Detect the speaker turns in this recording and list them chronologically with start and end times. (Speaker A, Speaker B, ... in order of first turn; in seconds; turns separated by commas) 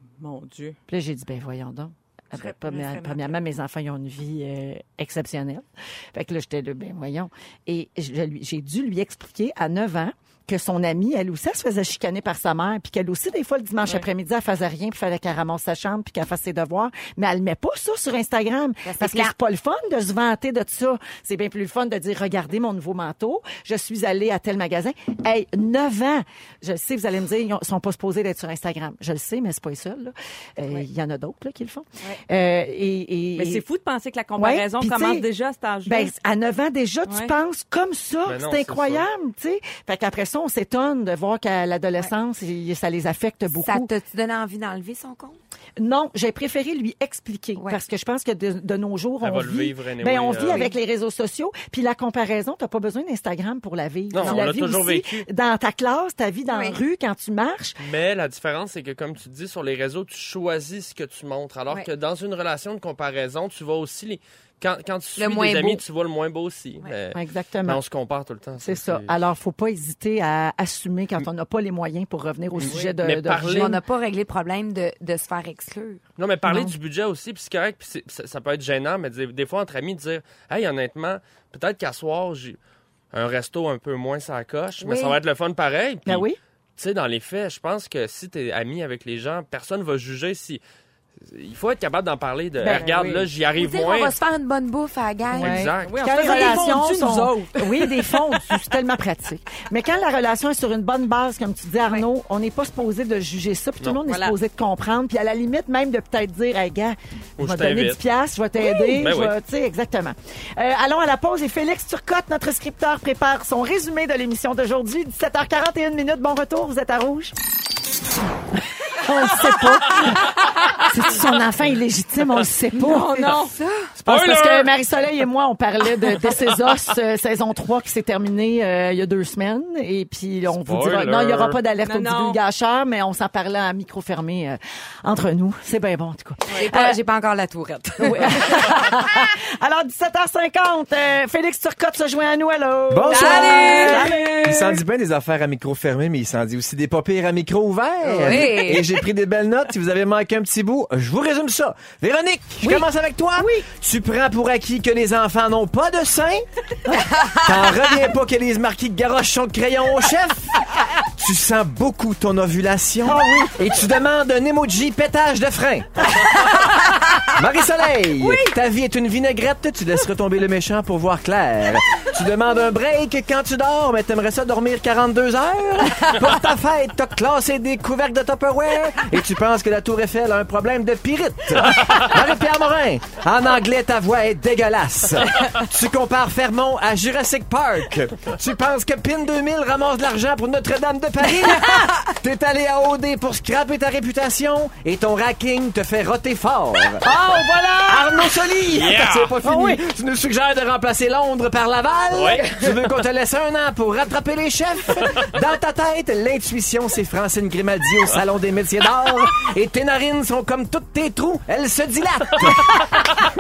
Speaker A: 0.2-0.8, Speaker B: 0.9-33.6, Speaker A: 2.3-3.4, Speaker C: 18.8-19.3, Speaker A: 33.4-36.1, Speaker B: 34.4-35.3, Speaker B: 35.8-43.9, Speaker A: 37.1-37.3, Speaker D: 38.2-39.0, Speaker C: 43.5-45.4, Speaker B: 45.8-57.8, Speaker D: 49.2-50.6, Speaker D: 54.1-55.3, Speaker C: 56.5-56.8, Speaker D: 57.8-69.2, Speaker C: 65.2-65.8, Speaker B: 67.1-67.8, Speaker B: 68.6-73.8, Speaker D: 72.6-73.8, Speaker C: 73.4-76.0, Speaker D: 76.2-82.6, Speaker B: 76.5-76.7, Speaker D: 83.1-90.6, Speaker C: 84.8-85.2, Speaker B: 86.0-86.4, Speaker D: 91.2-94.2, Speaker B: 92.6-92.9, Speaker A: 92.7-93.3, Speaker C: 93.5-95.6, Speaker D: 95.3-96.6, Speaker B: 95.3-117.3, Speaker A: 95.8-98.4, Speaker A: 104.0-104.3, Speaker D: 107.4-108.0, Speaker D: 108.8-109.3, Speaker B: 118.9-123.3, Speaker A: 122.8-123.5, Speaker C: 122.8-123.9, Speaker B: 124.0-137.0, Speaker D: 124.0-124.7, Speaker D: 130.5-131.6, Speaker A: 131.8-132.4, Speaker C: 136.5-138.8, Speaker B: 138.0-144.8, Speaker E: 142.9-156.4, Speaker C: 143.1-144.1, Speaker A: 143.2-144.6, Speaker C: 148.2-148.9, Speaker B: 152.6-153.7, Speaker E: 157.3-160.6, Speaker E: 161.2-166.1, Speaker B: 163.1-163.6, Speaker E: 167.3-197.1, Speaker A: 168.2-168.5, Speaker B: 191.2-192.0, Speaker B: 197.0-198.6, Speaker E: 197.8-213.0, Speaker D: 198.7-199.3, Speaker B: 199.4-199.8, Speaker D: 202.1-202.7